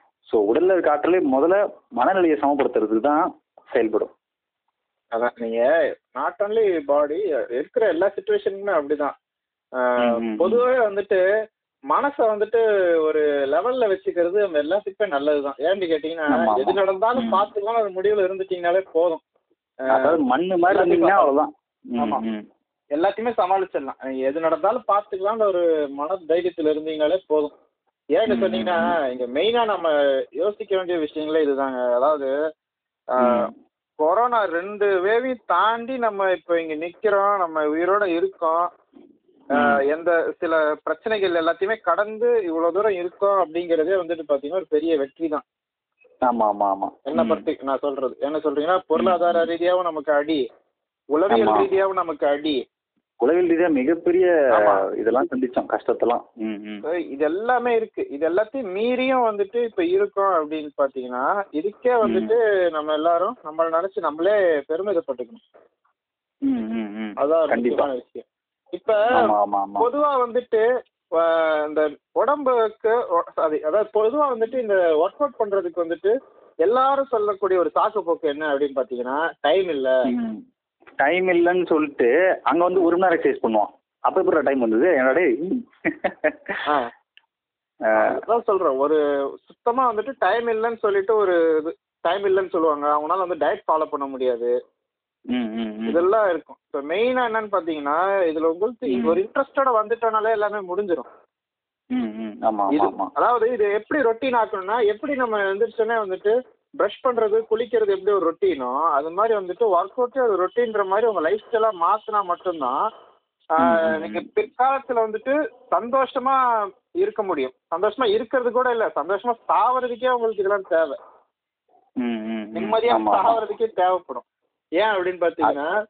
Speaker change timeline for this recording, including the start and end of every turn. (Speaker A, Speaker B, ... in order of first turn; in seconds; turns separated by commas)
Speaker A: 0.3-4.1, Speaker B: 5.1-9.1, Speaker B: 9.8-11.2, Speaker A: 10.0-10.6, Speaker B: 11.9-19.2, Speaker A: 16.3-17.4, Speaker B: 19.8-20.1, Speaker A: 19.9-22.5, Speaker B: 20.7-21.3, Speaker B: 22.0-22.2, Speaker B: 22.9-27.5, Speaker B: 28.1-32.3, Speaker A: 28.3-28.9, Speaker B: 33.1-38.7, Speaker A: 33.2-33.5, Speaker B: 39.5-45.4, Speaker A: 39.5-39.8, Speaker A: 46.2-47.5, Speaker B: 47.1-50.4, Speaker A: 49.0-49.5, Speaker B: 51.1-52.6, Speaker A: 51.3-51.7, Speaker A: 53.2-56.8, Speaker B: 54.5-54.8, Speaker B: 56.8-65.4, Speaker A: 62.0-62.3, Speaker A: 66.4-67.9, Speaker B: 67.2-70.6, Speaker A: 69.1-69.9, Speaker B: 71.2-80.0, Speaker A: 80.1-80.4, Speaker A: 81.0-86.6, Speaker A: 87.8-88.2, Speaker B: 88.0-94.5, Speaker A: 95.3-96.0, Speaker B: 95.9-101.1, Speaker A: 98.9-99.2, Speaker A: 101.9-103.1, Speaker B: 102.7-112.8, Speaker B: 113.6-116.4, Speaker A: 113.6-114.3, Speaker B: 117.0-121.0, Speaker A: 122.0-123.4, Speaker B: 122.5-124.2, Speaker B: 124.8-125.8